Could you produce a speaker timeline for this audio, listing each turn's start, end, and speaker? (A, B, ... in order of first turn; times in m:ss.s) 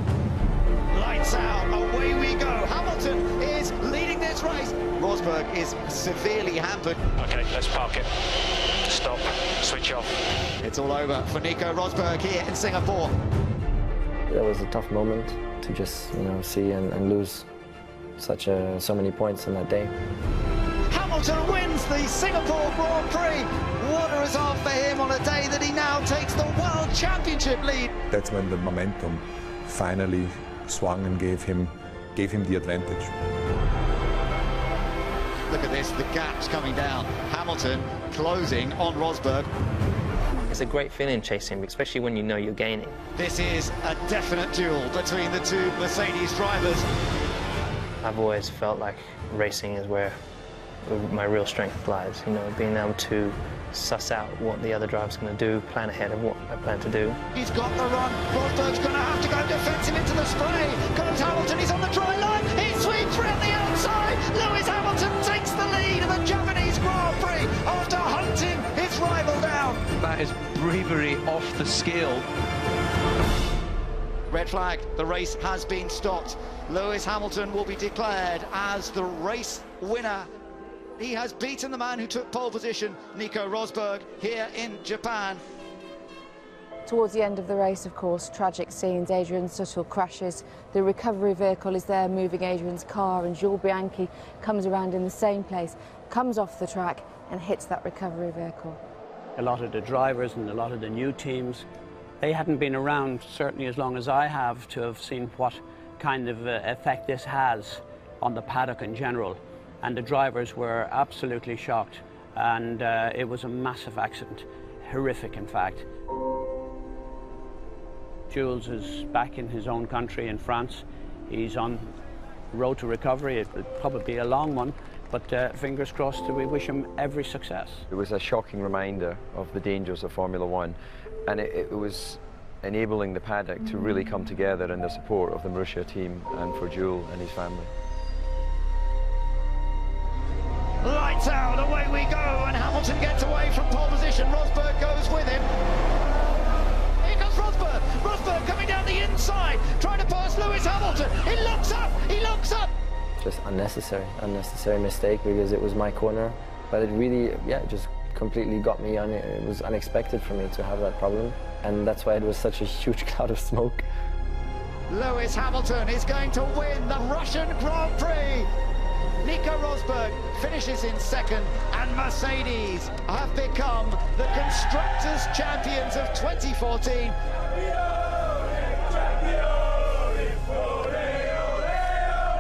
0:00.9-0:07.0 A
0:07.2-0:08.1 B
0:08.9-0:10.1 B
0:10.6-0:13.1 A
0:14.3-0:17.5 C
0:18.2-0:19.9 C
0:20.9-0:27.9 A
0:28.1-0:33.2 D
0:35.5-0:39.5 A
0:40.5-0:43.0 E
0:43.2-0:46.9 A
0:48.0-0:50.2 E
0:50.8-0:57.2 E
0:57.3-1:09.8 A
1:10.0-1:12.3 F
1:14.3-1:20.3 A
1:21.0-1:25.4 A
1:26.9-1:38.8 G
1:39.4-1:41.7 H
1:42.2-1:55.9 H
1:58.3-2:01.9 H
2:02.5-2:07.9 H
2:07.9-2:10.8 I
2:11.3-2:17.7 I
2:20.8-2:25.5 A
2:27.0-2:32.7 A
2:33.2-2:43.8 C
2:44.9-2:48.5 A
2:49.2-2:57.2 A